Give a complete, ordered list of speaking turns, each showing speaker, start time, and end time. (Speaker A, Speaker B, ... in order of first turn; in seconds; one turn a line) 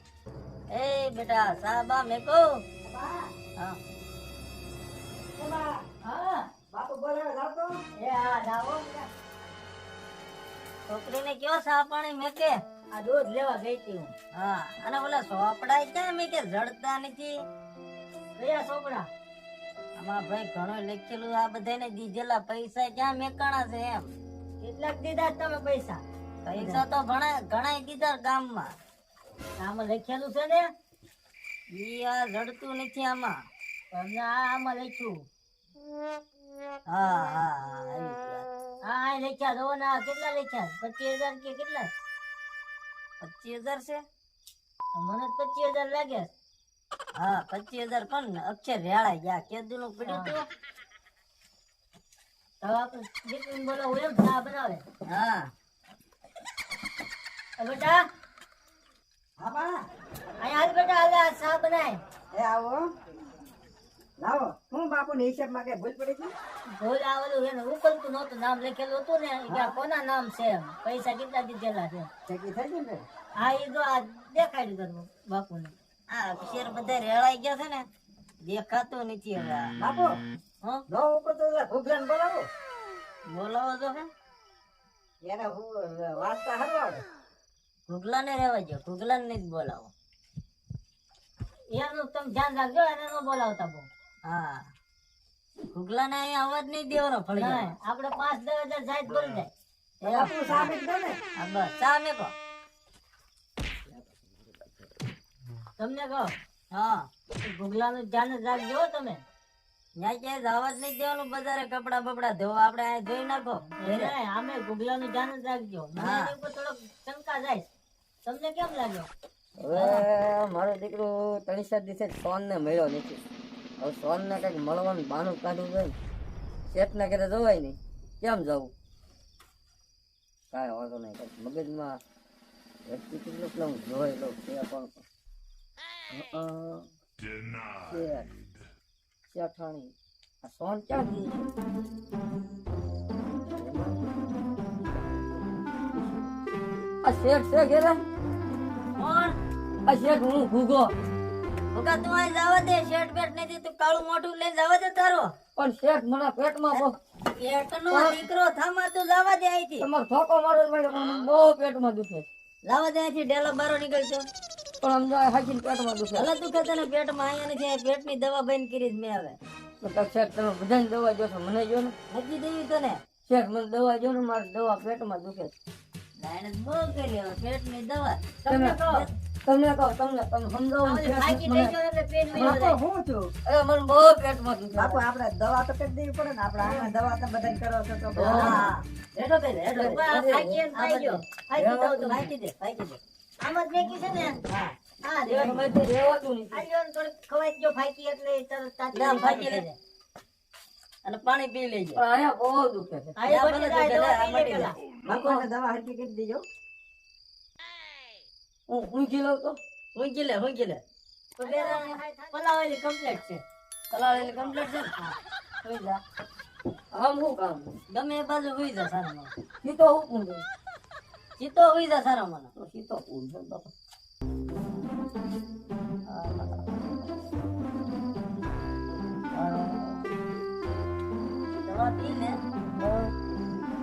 Speaker A: 0.7-2.6
Speaker B: 2.9-3.3
Speaker B: 5.4-5.8
Speaker C: 6.0-6.5
Speaker B: 6.7-7.8
Speaker C: 8.0-9.1
Speaker A: 10.9-12.6
Speaker C: 12.9-14.1
Speaker A: 14.3-17.3
Speaker C: 18.4-19.1
Speaker A: 20.0-24.1
Speaker C: 24.6-26.0
Speaker A: 26.4-28.7
Speaker C: 26.5-26.8
Speaker C: 29.6-30.7
Speaker A: 31.7-33.3
Speaker C: 33.9-35.2
Speaker A: 36.9-38.5
Speaker C: 38.8-41.9
Speaker A: 43.2-44.0
Speaker C: 45.0-46.3
Speaker A: 47.2-50.4
Speaker C: 50.0-50.4
Speaker C: 52.6-54.8
Speaker A: 55.1-55.5
Speaker C: 57.6-58.0
Speaker B: 59.4-59.8
Speaker C: 60.4-62.0
Speaker B: 62.3-62.9
Speaker B: 64.2-66.3
Speaker C: 66.8-72.1
Speaker B: 69.5-69.8
Speaker B: 72.3-73.0
Speaker C: 73.4-75.7
Speaker A: 76.1-77.8
Speaker A: 78.5-79.7
Speaker B: 79.8-80.2
Speaker B: 80.9-82.5
Speaker A: 83.3-84.1
Speaker B: 85.2-87.0
Speaker A: 87.9-89.9
Speaker C: 91.7-93.9
Speaker A: 94.2-94.7
Speaker A: 95.7-97.7
Speaker C: 97.3-99.5
Speaker A: 100.0-100.7
Speaker B: 100.0-101.2
Speaker A: 101.4-102.3
Speaker C: 105.8-106.3
Speaker A: 106.7-107.1
Speaker C: 107.5-109.2
Speaker A: 110.0-114.1
Speaker C: 113.8-117.7
Speaker A: 116.0-116.3
Speaker C: 118.2-119.1
Speaker D: 119.6-123.2
Speaker A: 119.7-120.0
Speaker D: 123.8-126.0
Speaker D: 126.7-128.7
Speaker D: 130.5-132.0
Speaker D: 132.9-135.0
Speaker D: 136.1-136.9
Speaker D: 137.7-138.3
Speaker D: 139.3-141.5
Speaker D: 143.5-146.3
Speaker D: 147.0-148.0
Speaker A: 149.0-149.3
Speaker D: 149.8-150.9
Speaker A: 151.7-155.3
Speaker D: 155.6-156.9
Speaker A: 156.7-159.9
Speaker D: 157.9-158.2
Speaker D: 159.8-162.3
Speaker A: 162.6-164.2
Speaker D: 164.8-166.3
Speaker A: 166.2-169.4
Speaker D: 169.8-171.9
Speaker A: 172.1-173.0
Speaker D: 173.3-175.5
Speaker A: 176.2-178.2
Speaker C: 178.4-179.1
Speaker D: 178.5-178.9
Speaker D: 179.4-181.7
Speaker C: 180.8-182.8
Speaker B: 182.3-183.3
Speaker D: 182.3-182.7
Speaker D: 183.4-185.0
Speaker B: 184.8-188.6
Speaker D: 188.2-188.7
Speaker A: 188.3-191.3
Speaker D: 189.7-190.6
Speaker C: 189.8-192.3
Speaker D: 191.6-192.2
Speaker A: 192.1-193.0
Speaker C: 193.4-194.4
Speaker A: 194.5-194.7
Speaker C: 195.0-195.6
Speaker D: 195.2-196.6
Speaker C: 196.5-199.8
Speaker A: 198.9-199.7
Speaker A: 201.0-202.0
Speaker D: 201.9-203.1
Speaker C: 203.2-204.8
Speaker A: 203.2-204.8
Speaker D: 205.0-205.4
Speaker B: 205.0-206.4
Speaker D: 208.7-209.6
Speaker A: 209.9-210.8
Speaker C: 211.4-213.4
Speaker A: 211.4-212.0
Speaker D: 213.9-214.7
Speaker A: 214.2-214.9
Speaker A: 215.6-216.0
Speaker D: 216.9-217.7
Speaker A: 217.9-219.3
Speaker D: 219.6-220.4
Speaker A: 221.4-222.5
Speaker D: 222.5-223.7
Speaker D: 226.1-227.1
Speaker D: 229.3-230.1
Speaker A: 231.6-232.4
Speaker D: 232.7-233.1